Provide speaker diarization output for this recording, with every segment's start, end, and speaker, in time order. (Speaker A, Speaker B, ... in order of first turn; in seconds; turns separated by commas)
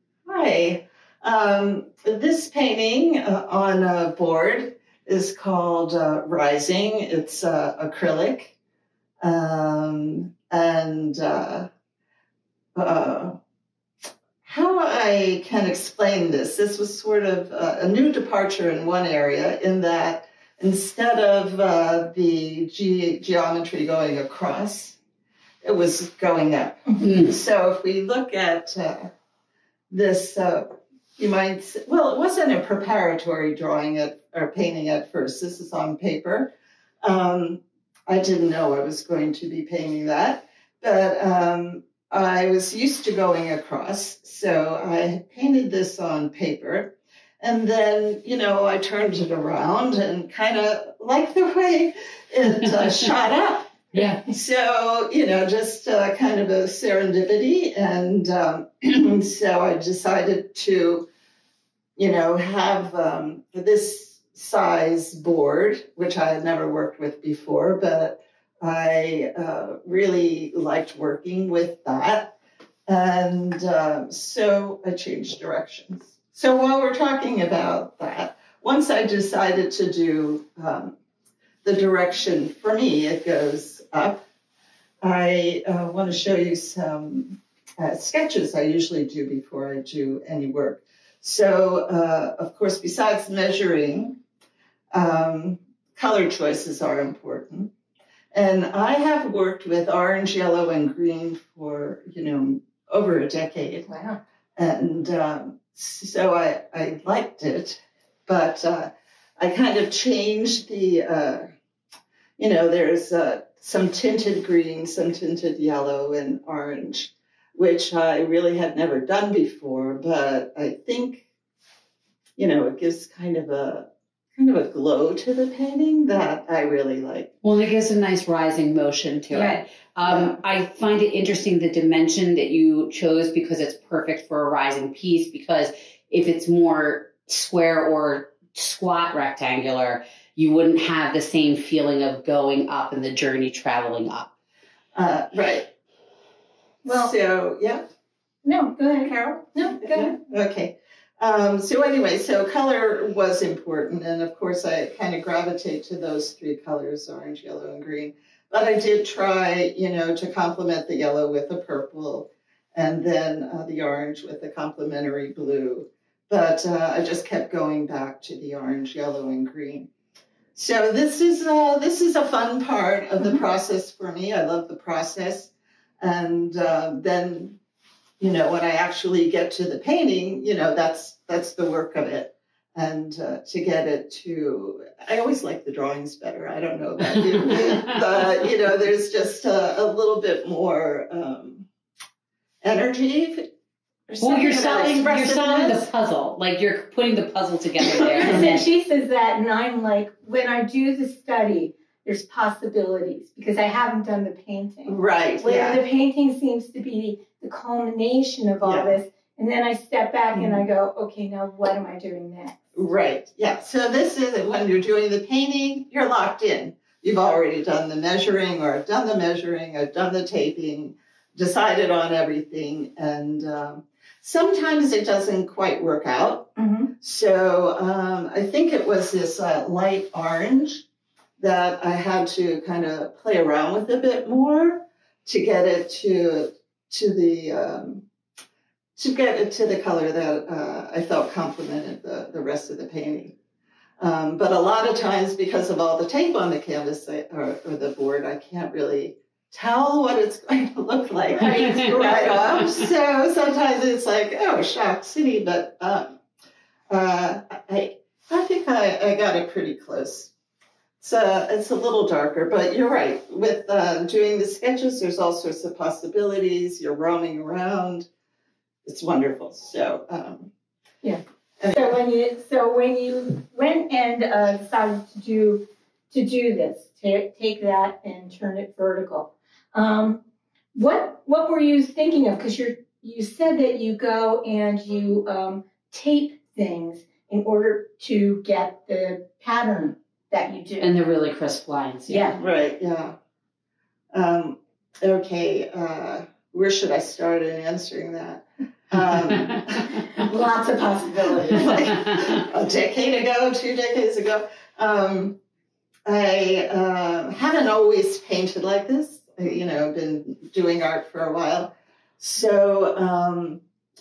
Speaker A: 0.2-8.5, Speaker A: 9.2-11.7, Speaker A: 12.7-13.4, Speaker A: 14.4-25.0, Speaker A: 25.6-29.1, Speaker B: 27.0-27.3, Speaker A: 29.9-36.5, Speaker A: 37.0-61.0, Speaker B: 53.9-54.2, Speaker A: 62.0-72.3, Speaker A: 72.9-80.9, Speaker A: 81.6-84.2, Speaker A: 85.0-94.2, Speaker A: 94.9-97.7, Speaker A: 98.3-103.9, Speaker C: 103.9-104.2, Speaker A: 104.6-111.4, Speaker A: 112.4-121.2, Speaker A: 122.4-127.3, Speaker B: 127.4-144.3, Speaker C: 129.3-129.6, Speaker A: 130.0-130.4, Speaker A: 144.9-145.7, Speaker C: 146.8-147.1, Speaker A: 146.8-147.8, Speaker C: 148.4-150.1, Speaker A: 149.1-169.9, Speaker A: 170.5-177.6, Speaker A: 178.2-191.7, Speaker B: 187.2-188.0, Speaker A: 192.6-193.5, Speaker A: 194.1-195.9, Speaker B: 194.2-198.6, Speaker A: 197.8-198.5, Speaker C: 198.1-212.6, Speaker A: 204.9-205.8, Speaker A: 208.6-209.0, Speaker A: 210.3-210.6, Speaker A: 212.7-230.8, Speaker C: 226.6-226.9, Speaker A: 231.4-238.0, Speaker A: 239.0-243.3, Speaker A: 244.0-256.1, Speaker B: 251.4-252.8, Speaker A: 256.9-260.3, Speaker A: 261.0-268.1, Speaker A: 268.8-270.5, Speaker C: 271.7-280.2, Speaker C: 280.7-290.9, Speaker B: 290.8-292.4, Speaker C: 292.1-292.4, Speaker A: 292.4-293.1, Speaker A: 294.1-300.0, Speaker C: 300.1-301.8, Speaker A: 301.0-305.4, Speaker B: 302.0-302.3, Speaker A: 306.1-313.6